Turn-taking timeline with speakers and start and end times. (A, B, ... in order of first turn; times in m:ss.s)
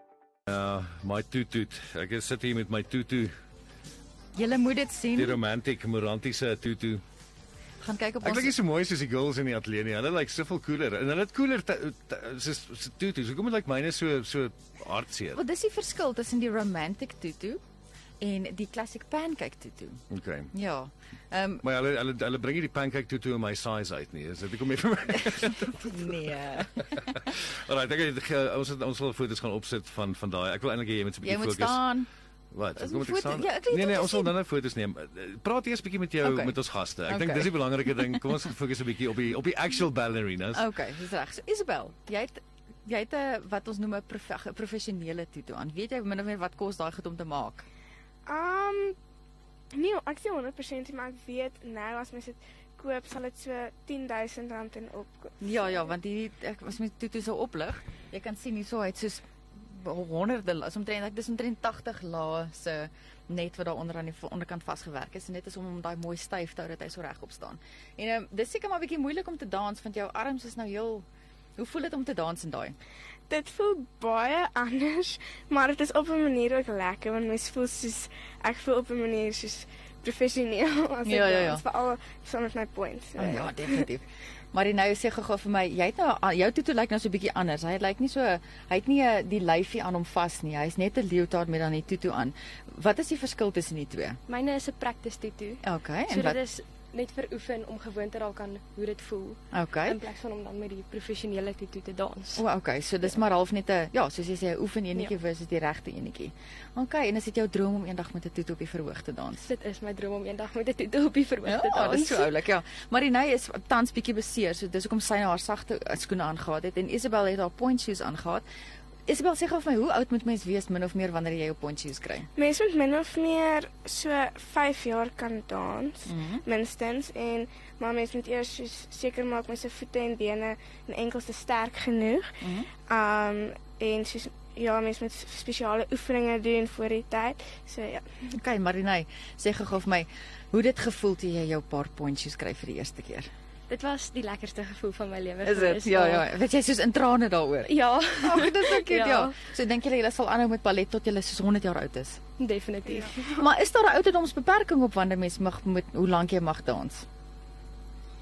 0:00.5-0:03.3 A
0:04.4-0:05.4 B
0:05.2-0:07.0 A
0:07.8-0:08.5 B
0:08.2-0:15.4 A
0:15.3-0:17.6 B
0:18.2-0:20.0 B
0:20.1-0:20.5 A
0:20.5-0:21.6 B
0:21.6-0:31.8 A
0:25.8-0:27.3 B
0:31.2-0:32.1 B
0:32.5-0:40.6 A
0:32.8-0:34.3 B
0:36.2-0:36.5 B
0:37.1-0:37.5 B
0:40.5-0:47.6 B
0:48.2-0:49.0 C
0:49.7-0:55.8 C
0:55.4-1:11.0 B
1:11.6-1:12.7 B
1:13.3-1:23.8 C
1:21.0-1:21.6 B
1:23.2-1:34.2 B
1:34.3-1:42.4 D
1:35.6-1:36.4 B
1:39.5-1:40.0 B
1:42.3-1:49.4 B
1:49.4-1:52.3 D
1:51.4-1:58.4 B
1:59.1-2:02.3 B
2:02.4-2:12.3 C
2:06.1-2:06.4 B
2:12.4-2:12.7 B
2:12.9-2:18.1 C
2:18.3-2:23.3 B
2:23.7-2:26.2 D
2:25.4-2:32.2 B
2:27.7-2:29.4 D
2:32.4-2:33.3 D
2:33.2-2:37.0 B